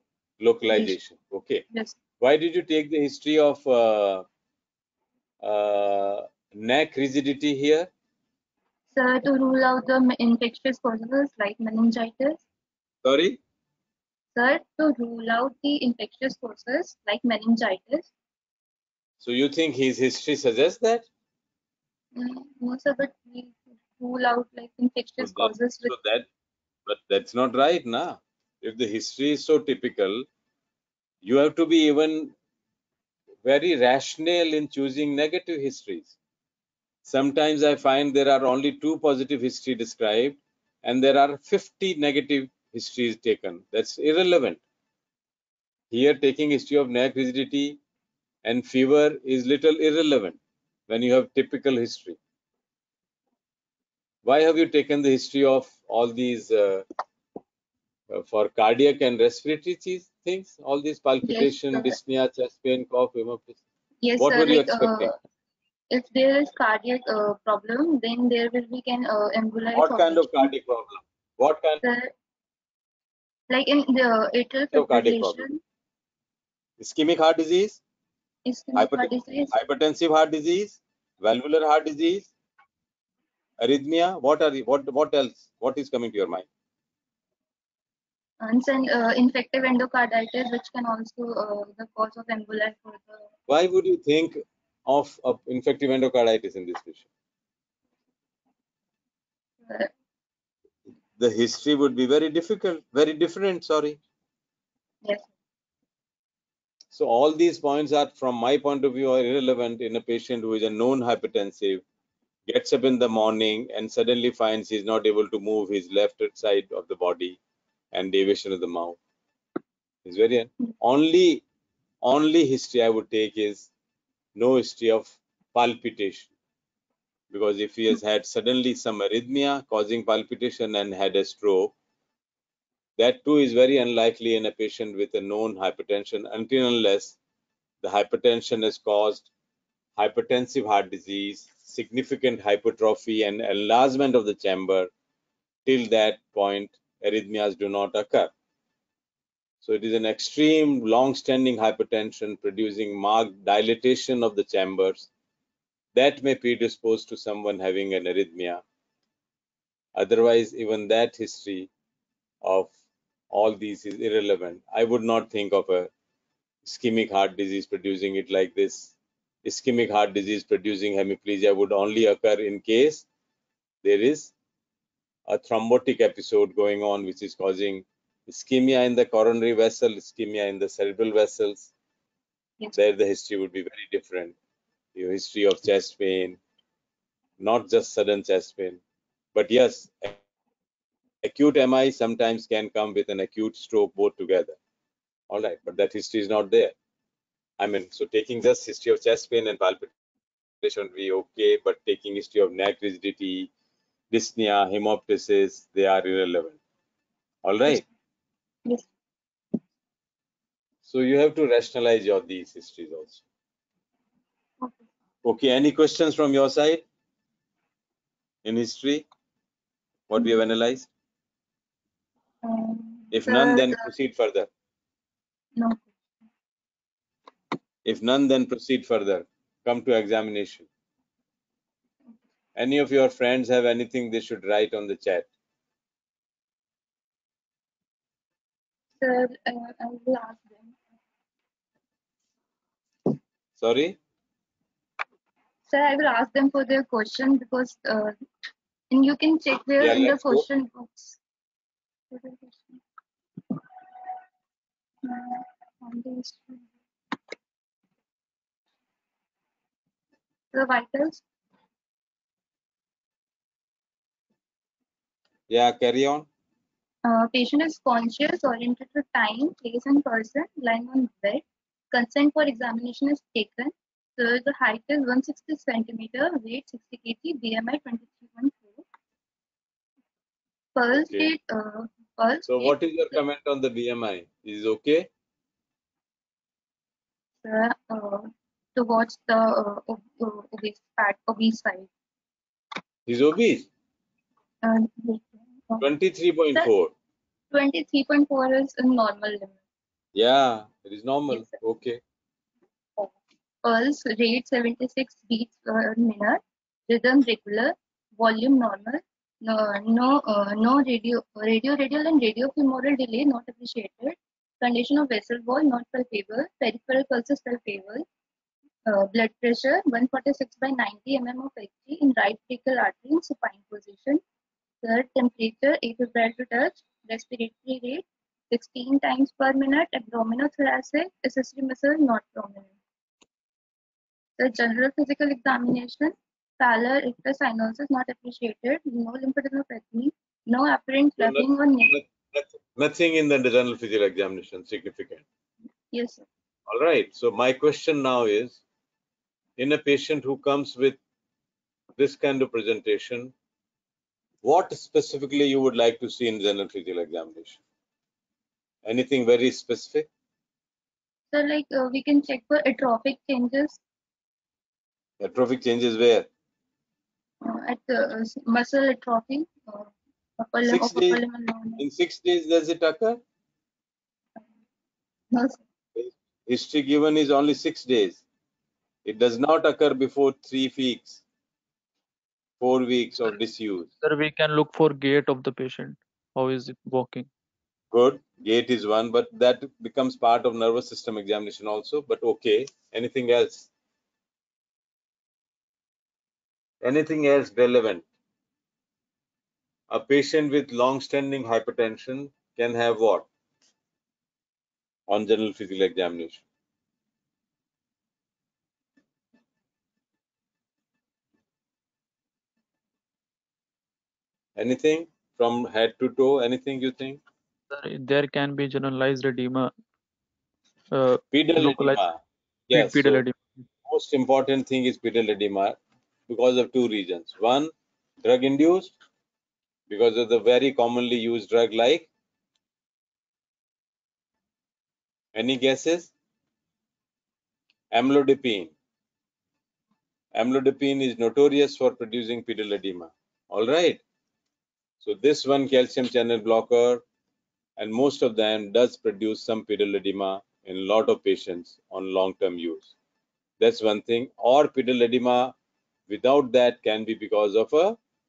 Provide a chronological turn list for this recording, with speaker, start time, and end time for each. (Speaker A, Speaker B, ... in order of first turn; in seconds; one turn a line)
Speaker A: 0.4-1.6
Speaker A: 2.2-4.2
Speaker A: 5.4-7.9
Speaker B: 8.9-12.4
Speaker A: 13.0-13.4
Speaker B: 14.3-18.1
Speaker A: 19.2-21.1
Speaker B: 22.1-25.9
Speaker A: 25.2-26.3
Speaker A: 26.9-30.3
Speaker A: 31.2-32.3
Speaker A: 33.4-36.2
Speaker A: 37.0-44.6
Speaker A: 45.9-47.8
Speaker A: 48.4-50.4
Speaker A: 50.9-52.2
Speaker A: 54.2-56.9
Speaker A: 58.1-63.6
Speaker B: 61.2-62.0
Speaker B: 64.0-65.1
Speaker A: 64.2-65.2
Speaker B: 65.9-70.5
Speaker A: 69.8-71.8
Speaker B: 71.8-72.1
Speaker B: 73.5-75.6
Speaker A: 74.7-75.5
Speaker A: 76.8-77.8
Speaker B: 78.5-79.5
Speaker A: 78.8-82.3
Speaker A: 83.6-86.5
Speaker B: 88.4-93.3
Speaker A: 93.5-97.1
Speaker B: 99.6-99.9
Speaker A: 101.2-104.0
Speaker B: 105.0-105.3
Speaker A: 106.9-111.8
Speaker A: 112.5-117.4
Speaker A: 117.9-119.0
Speaker A: 120.0-121.4
Speaker A: 122.0-123.7
Speaker A: 124.3-126.3
Speaker A: 127.3-131.7
Speaker A: 133.0-137.2
Speaker A: 137.8-139.3
Speaker A: 140.0-144.9
Speaker A: 145.7-148.3
Speaker A: 149.6-155.1
Speaker A: 155.9-158.6
Speaker A: 159.9-161.7
Speaker A: 162.4-162.7
Speaker A: 163.3-165.9
Speaker A: 166.6-173.1
Speaker A: 173.8-174.3
Speaker A: 175.3-181.7
Speaker A: 182.8-184.3
Speaker A: 184.9-186.4
Speaker A: 187.4-188.8
Speaker A: 189.3-190.2
Speaker A: 191.2-194.6
Speaker A: 195.3-196.8
Speaker A: 197.6-199.9
Speaker A: 200.6-203.5
Speaker A: 204.1-206.6
Speaker A: 207.4-207.8
Speaker A: 210.8-213.2
Speaker A: 215.2-216.8
Speaker A: 218.4-219.1
Speaker A: 220.1-220.9
Speaker B: 222.4-223.9
Speaker A: 223.1-224.5
Speaker B: 225.6-225.9
Speaker A: 227.8-230.7
Speaker A: 232.6-235.3
Speaker B: 239.0-240.8
Speaker A: 243.6-244.0
Speaker B: 245.7-248.2
Speaker B: 248.9-251.2
Speaker A: 249.8-250.5
Speaker B: 252.1-252.8
Speaker B: 255.0-256.7
Speaker B: 260.5-261.2
Speaker A: 265.5-266.3
Speaker B: 267.0-278.8
Speaker B: 280.8-283.2
Speaker A: 280.9-281.3
Speaker A: 282.5-285.1
Speaker B: 287.4-291.9
Speaker A: 293.1-293.7
Speaker B: 294.6-295.9
Speaker A: 295.8-296.9
Speaker B: 297.5-299.6
Speaker A: 300.1-302.0
Speaker B: 301.3-301.6
Speaker B: 303.6-318.0
Speaker B: 318.9-324.2
Speaker B: 324.8-332.8
Speaker B: 334.4-342.0
Speaker A: 341.2-345.2
Speaker B: 345.9-346.3
Speaker A: 346.7-348.6
Speaker A: 349.6-351.0
Speaker A: 352.0-353.3
Speaker A: 354.4-357.6
Speaker A: 358.8-360.1
Speaker B: 361.3-363.8
Speaker A: 365.2-366.3
Speaker B: 367.4-371.8
Speaker A: 370.6-371.2
Speaker A: 371.8-373.2
Speaker B: 375.3-375.6
Speaker A: 375.9-378.2
Speaker A: 379.1-381.2
Speaker A: 382.6-383.9
Speaker C: 384.0-387.3
Speaker A: 387.9-393.7
Speaker A: 396.8-398.1
Speaker A: 399.9-403.3
Speaker A: 405.1-406.4
Speaker A: 414.6-417.2
Speaker C: 417.7-419.7
Speaker C: 420.9-422.1
Speaker A: 421.3-423.2
Speaker C: 422.7-423.6
Speaker A: 423.9-427.7
Speaker A: 428.2-429.0
Speaker A: 429.9-432.1
Speaker A: 435.3-436.1
Speaker A: 437.9-438.7
Speaker A: 440.4-444.0
Speaker A: 445.0-447.0
Speaker A: 447.8-452.9
Speaker A: 453.6-455.6
Speaker A: 456.1-458.0